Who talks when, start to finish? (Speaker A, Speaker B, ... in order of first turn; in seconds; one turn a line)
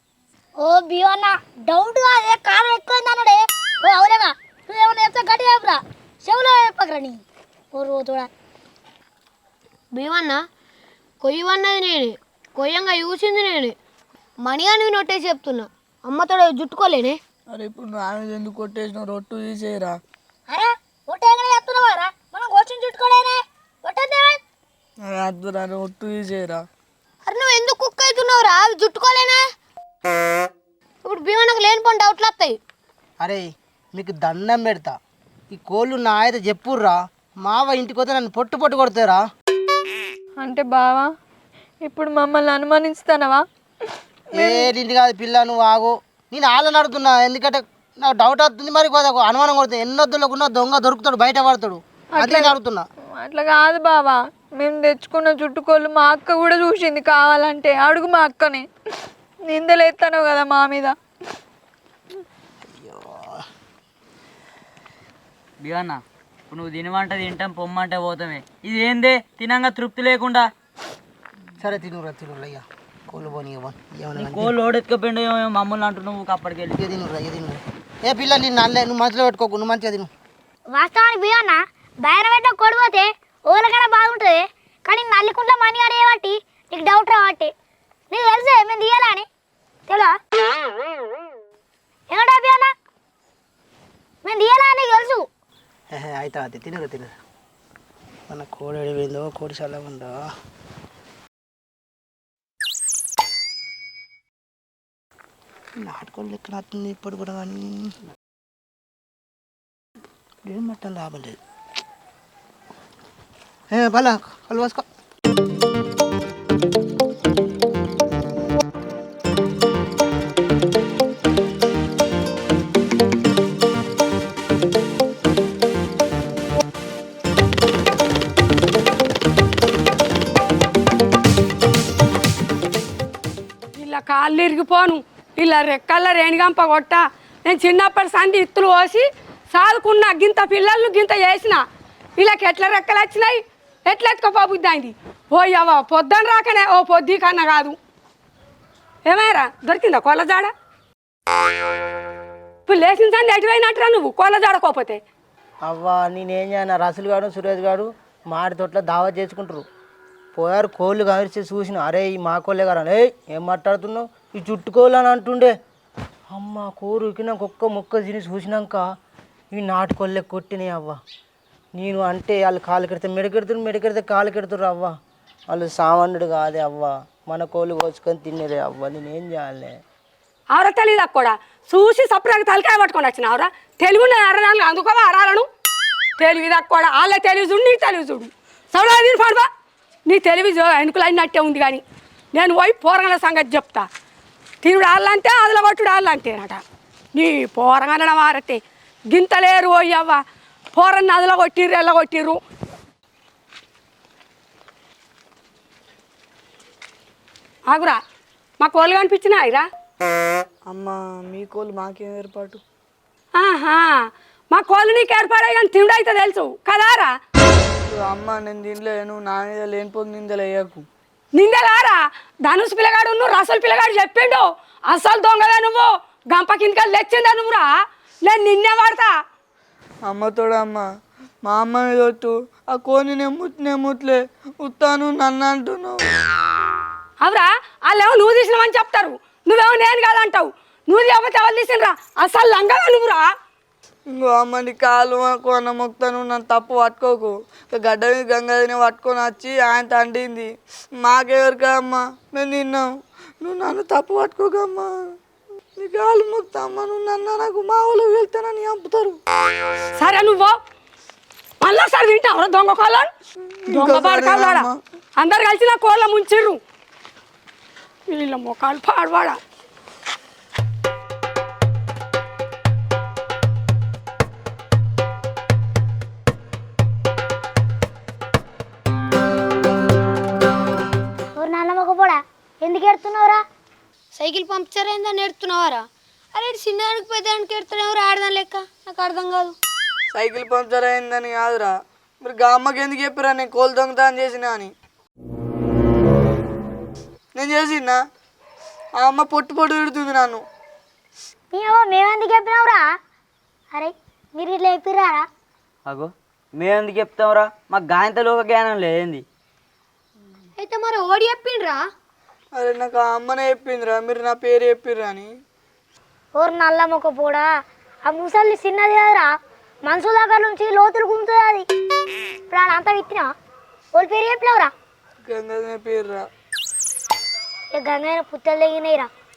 Speaker A: 0.6-7.2
Speaker A: 7.7-8.3
Speaker B: 9.9-10.4
Speaker B: 11.2-13.8
Speaker B: 14.4-17.2
Speaker C: 17.5-20.0
Speaker A: 20.5-24.4
Speaker C: 25.0-26.6
Speaker B: 27.2-29.4
Speaker B: 31.0-32.6
Speaker D: 33.2-34.9
Speaker D: 35.5-39.2
Speaker E: 40.4-41.1
Speaker E: 41.8-43.4
Speaker E: 44.3-44.7
Speaker D: 44.3-52.9
Speaker E: 52.2-52.5
Speaker E: 53.2-58.7
Speaker E: 59.5-60.9
Speaker D: 62.7-63.3
Speaker F: 65.6-70.5
Speaker D: 71.6-74.5
Speaker F: 74.2-76.8
Speaker D: 76.7-80.1
Speaker A: 80.7-87.5
Speaker A: 88.1-89.2
Speaker A: 89.9-90.1
Speaker A: 92.1-92.7
Speaker A: 94.2-95.2
Speaker D: 95.9-97.1
Speaker D: 98.3-100.2
Speaker D: 105.8-107.9
Speaker D: 110.4-111.4
Speaker D: 113.7-114.8
Speaker G: 133.8-141.6
Speaker G: 142.2-147.8
Speaker G: 149.1-150.5
Speaker G: 152.7-155.0
Speaker D: 155.7-159.6
Speaker D: 160.3-165.5
Speaker D: 166.3-168.8
Speaker D: 169.5-171.0
Speaker D: 171.8-174.9
Speaker D: 175.5-179.7
Speaker G: 180.5-185.5
Speaker G: 186.2-189.5
Speaker G: 190.1-191.8
Speaker G: 192.3-193.9
Speaker G: 194.6-196.6
Speaker G: 197.1-200.2
Speaker G: 200.7-202.4
Speaker G: 207.7-208.0
Speaker G: 208.6-209.7
Speaker C: 210.7-212.6
Speaker G: 213.4-217.1
Speaker C: 217.9-220.8
Speaker G: 221.3-227.7
Speaker G: 228.2-229.1
Speaker C: 230.1-230.8
Speaker C: 231.4-236.0
Speaker G: 237.2-243.3
Speaker C: 244.1-252.9
Speaker C: 253.4-255.1
Speaker C: 255.8-259.2
Speaker G: 260.0-260.6
Speaker G: 261.6-263.1
Speaker C: 263.6-264.8
Speaker G: 263.7-266.6
Speaker G: 268.1-269.4
Speaker A: 281.4-283.4
Speaker B: 284.1-289.6
Speaker C: 290.1-294.7
Speaker C: 297.3-298.0
Speaker C: 299.0-300.4
Speaker A: 301.5-302.8
Speaker A: 303.7-305.2
Speaker F: 305.9-309.2
Speaker B: 310.6-311.8
Speaker C: 312.6-315.3
Speaker A: 316.4-317.5
Speaker A: 318.1-319.3
Speaker A: 319.9-321.7
Speaker A: 322.5-323.3
Speaker A: 323.9-324.7
Speaker C: 325.3-326.3
Speaker A: 327.8-329.1